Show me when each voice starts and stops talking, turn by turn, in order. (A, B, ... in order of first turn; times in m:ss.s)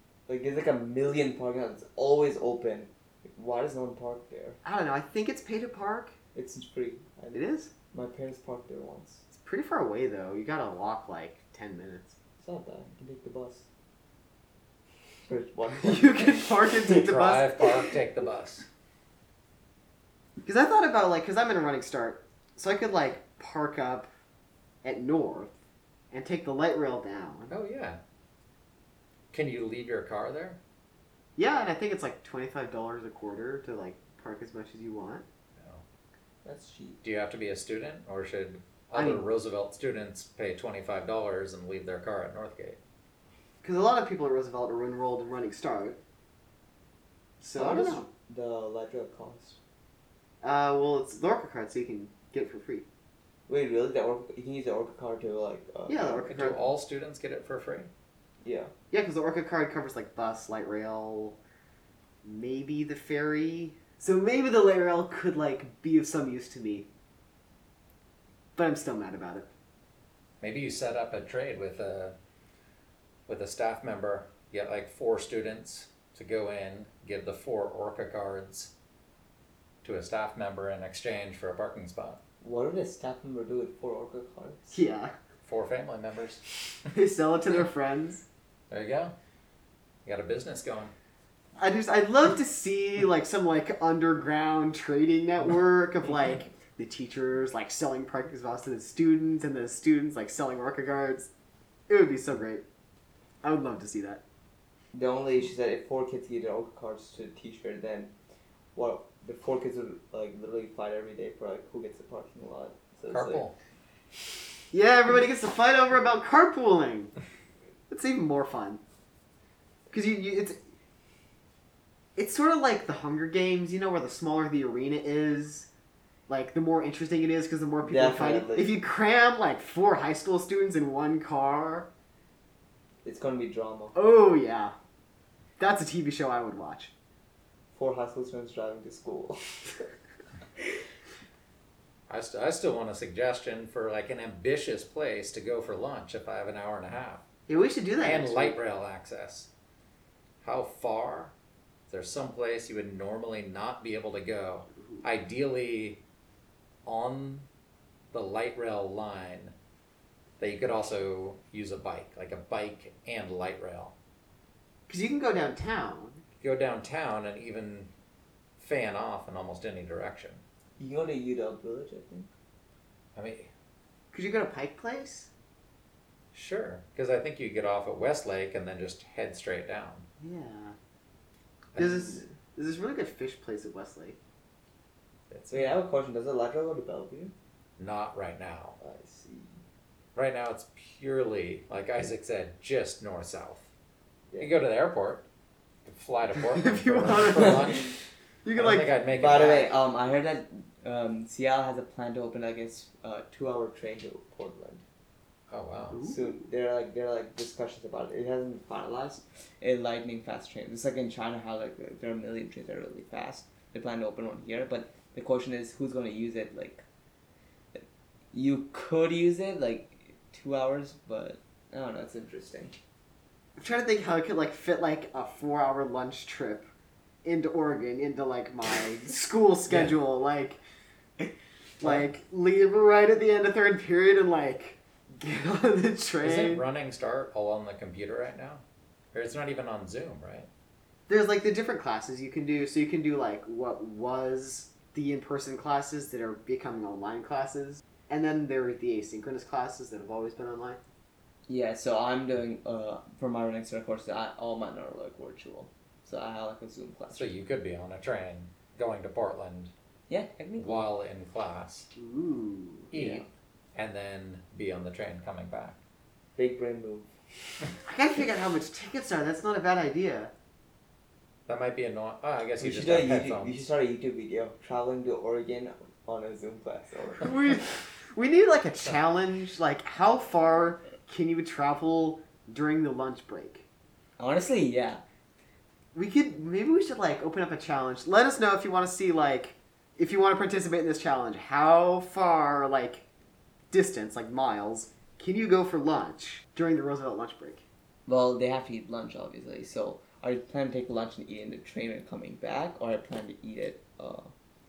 0:00.3-0:04.6 A
0:04.6-0:06.1 B
0:06.3-0:09.2 A
0:07.3-0:07.7 B
0:09.3-0:12.1 B
0:12.4-0:13.7 A
0:15.3-0:16.5 A
0:15.8-0:17.7 B
0:16.9-0:18.7 C
0:20.4-0:24.1 B
0:24.8-0:25.5 B
0:26.1-0:27.5 B
0:27.5-0:28.0 C
0:29.3-0:30.6 C
0:31.4-0:35.2 B
0:35.6-0:35.8 C
0:36.4-0:37.0 A
0:37.0-0:42.8 C
0:38.9-0:39.3 B
0:43.6-0:46.0 B
0:47.4-0:48.1 B
0:47.5-0:49.6 A
0:50.4-0:52.8 B
0:53.5-0:56.3 A
0:55.9-0:56.6 B
0:56.2-0:57.9 C
0:58.4-0:58.7 A
0:58.9-1:01.4 B
1:02.2-1:06.9 B
1:08.6-1:09.5 B
1:10.4-1:12.1 C
1:13.3-1:18.7 C
1:19.8-1:22.2 C
1:22.4-1:24.8 A
1:24.7-1:25.1 B
1:25.4-1:26.4 C
1:26.9-1:28.2 B
1:28.7-1:29.1 C
1:30.0-1:30.9 C
1:31.6-1:41.3 B
1:41.9-1:42.6 B
1:43.4-1:44.2 B
1:44.9-1:48.1 A
1:48.7-1:53.4 A
1:53.1-1:53.5 C
1:54.7-1:57.1 B
1:57.9-1:58.8 B
1:59.9-2:00.6 B
2:02.2-2:05.7 B
2:06.3-2:11.9 B
2:07.8-2:08.7 A
2:13.0-2:14.0 A
2:13.9-2:14.7 B
2:15.6-2:16.9 B
2:17.7-2:19.8 A
2:22.1-2:27.2 C
2:27.5-2:28.6 B
2:28.0-2:29.5 C
2:30.4-2:31.3 C
2:31.9-2:36.0 C
2:36.8-2:37.5 C
2:38.1-2:39.5 C
2:40.4-2:43.9 C
2:44.9-2:46.2 B
2:46.4-2:47.9 C
2:48.6-2:50.4 C
2:50.8-2:52.3 A
2:53.1-2:53.5 C
2:54.1-2:55.3 B
2:56.3-3:00.0 C
3:00.2-3:00.8 B
3:01.7-3:02.2 C
3:01.8-3:04.2 B
3:05.3-3:05.8 C
3:05.5-3:07.3 A
3:07.8-3:08.8 C
3:08.8-3:09.6 A
3:10.1-3:13.7 C
3:14.4-3:15.2 C
3:15.8-3:18.0 C
3:16.3-3:19.6 B
3:17.4-3:17.7 A
3:18.5-3:19.7 C
3:19.1-3:24.8 A
3:25.5-3:26.0 C
3:25.9-3:26.3 B
3:26.0-3:36.8 A
3:37.7-3:42.7 A
3:43.6-3:46.7 B
3:47.2-3:50.6 B
3:51.8-3:56.6 B
3:56.2-4:00.5 C
4:01.1-4:10.8 B
4:11.5-4:17.3 A
4:17.1-4:19.7 C
4:20.1-4:20.9 A
4:20.6-4:21.9 C
4:21.9-4:22.9 B
4:22.9-4:25.8 C
4:22.9-4:23.2 A
4:26.4-4:27.1 A
4:27.8-4:30.3 B
4:31.5-4:33.6 C
4:32.6-4:37.6 A
4:37.2-4:43.6 B
4:44.2-4:45.0 A
4:45.9-4:53.0 B
4:53.7-4:57.6 B
4:58.1-5:04.3 A